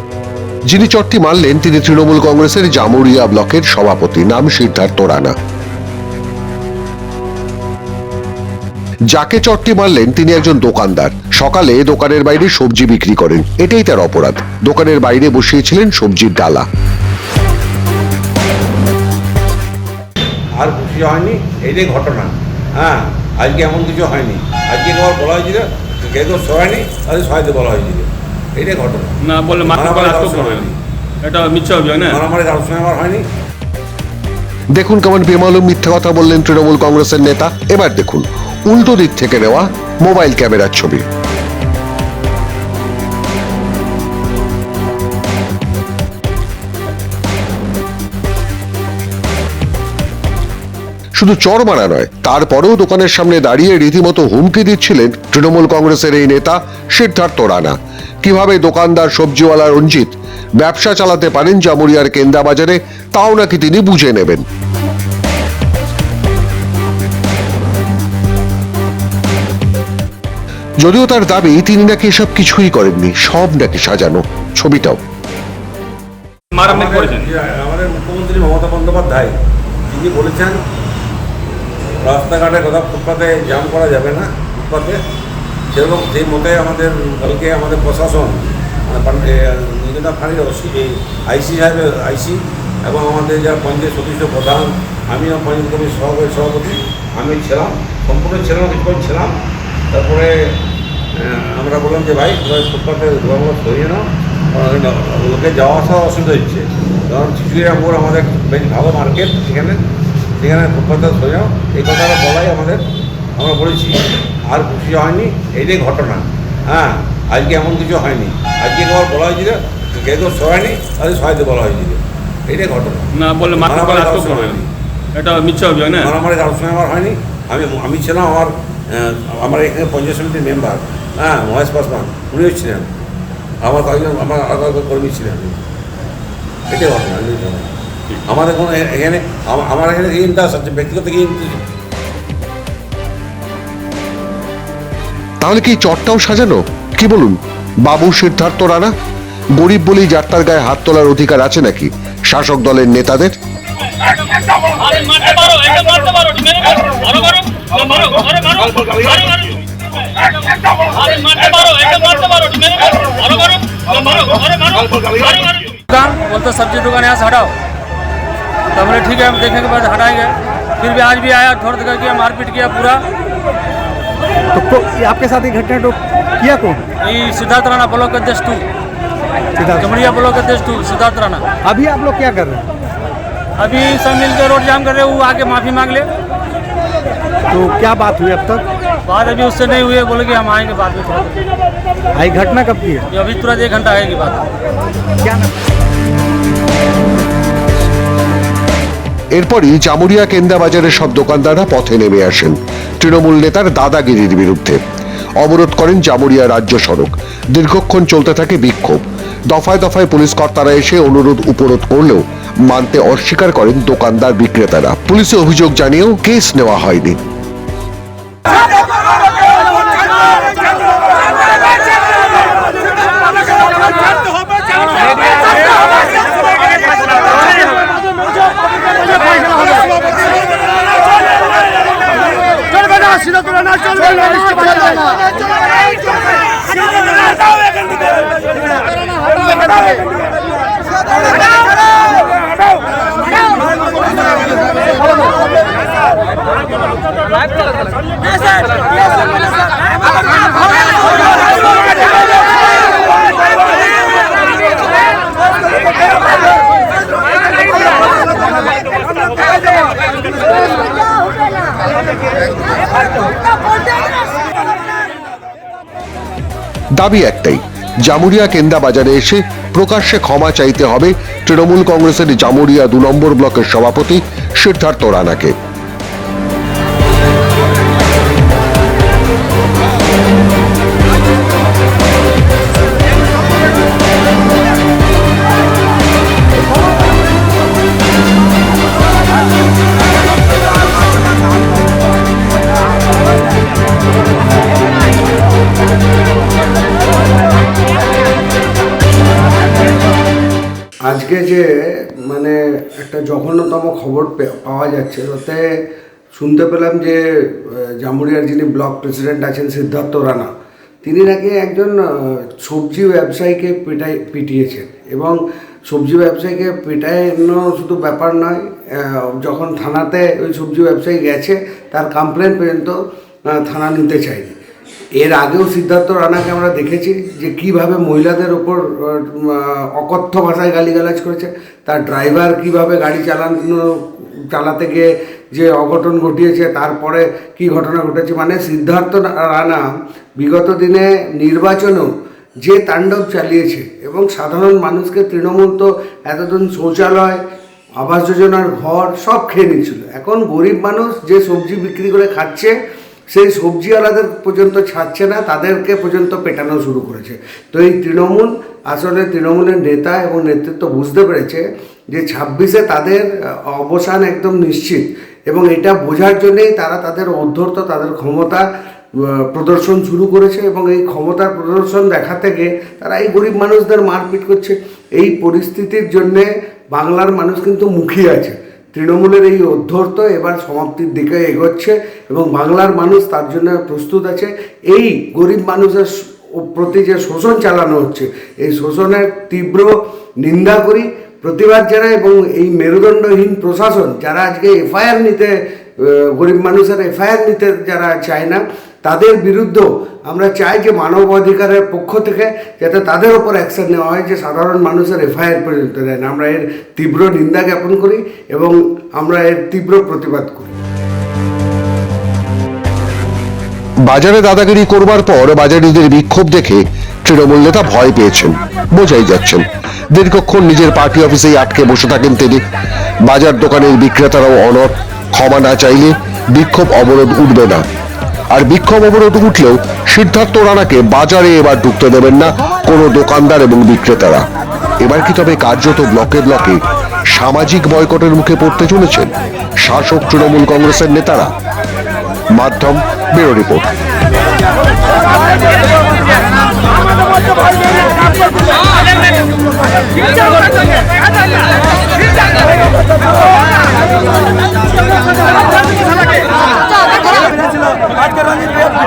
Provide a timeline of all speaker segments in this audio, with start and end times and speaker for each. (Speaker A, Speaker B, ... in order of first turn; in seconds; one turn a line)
Speaker A: 0.7-5.3
Speaker A: 9.1-16.7
Speaker B: 20.6-30.8
Speaker C: 29.2-30.7
Speaker C: 31.2-32.2
Speaker B: 32.1-33.2
Speaker A: 34.7-41.0
Speaker A: 51.2-64.4
Speaker A: 70.8-75.0
Speaker C: 76.5-77.3
Speaker B: 76.6-79.4
Speaker B: 79.9-80.6
Speaker B: 82.0-85.0
Speaker B: 85.7-99.4
Speaker B: 99.9-100.6
Speaker B: 101.1-109.8
Speaker B: 110.4-112.8
Speaker B: 113.4-124.7
Speaker C: 123.2-124.6
Speaker C: 125.2-126.1
Speaker B: 126.0-132.9
Speaker B: 133.6-135.6
Speaker B: 136.7-137.7
Speaker B: 138.3-141.6
Speaker A: 145.4-148.9
Speaker A: 149.6-153.4
Speaker D: 154.7-159.7
Speaker D: 160.3-167.5
Speaker D: 168.7-173.1
Speaker E: 174.5-176.8
Speaker D: 177.0-178.7
Speaker D: 179.8-181.5
Speaker E: 181.7-182.7
Speaker D: 183.6-186.1
Speaker E: 187.5-188.6
Speaker D: 189.1-191.4
Speaker E: 192.2-193.0
Speaker D: 193.1-194.5
Speaker A: 199.3-204.8
Speaker A: 205.4-217.2
Speaker E: 234.3-234.6
Speaker A: 267.0-275.6
Speaker F: 301.0-305.6
Speaker F: 306.3-310.5
Speaker F: 311.0-323.0
Speaker F: 323.5-324.6
Speaker F: 325.2-339.9
Speaker F: 340.4-347.4
Speaker F: 348.0-352.7
Speaker F: 353.3-410.8
Speaker A: 414.1-422.6
Speaker A: 423.2-427.8
Speaker A: 428.5-434.5
Speaker A: 435.0-441.5
Speaker A: 442.5-443.9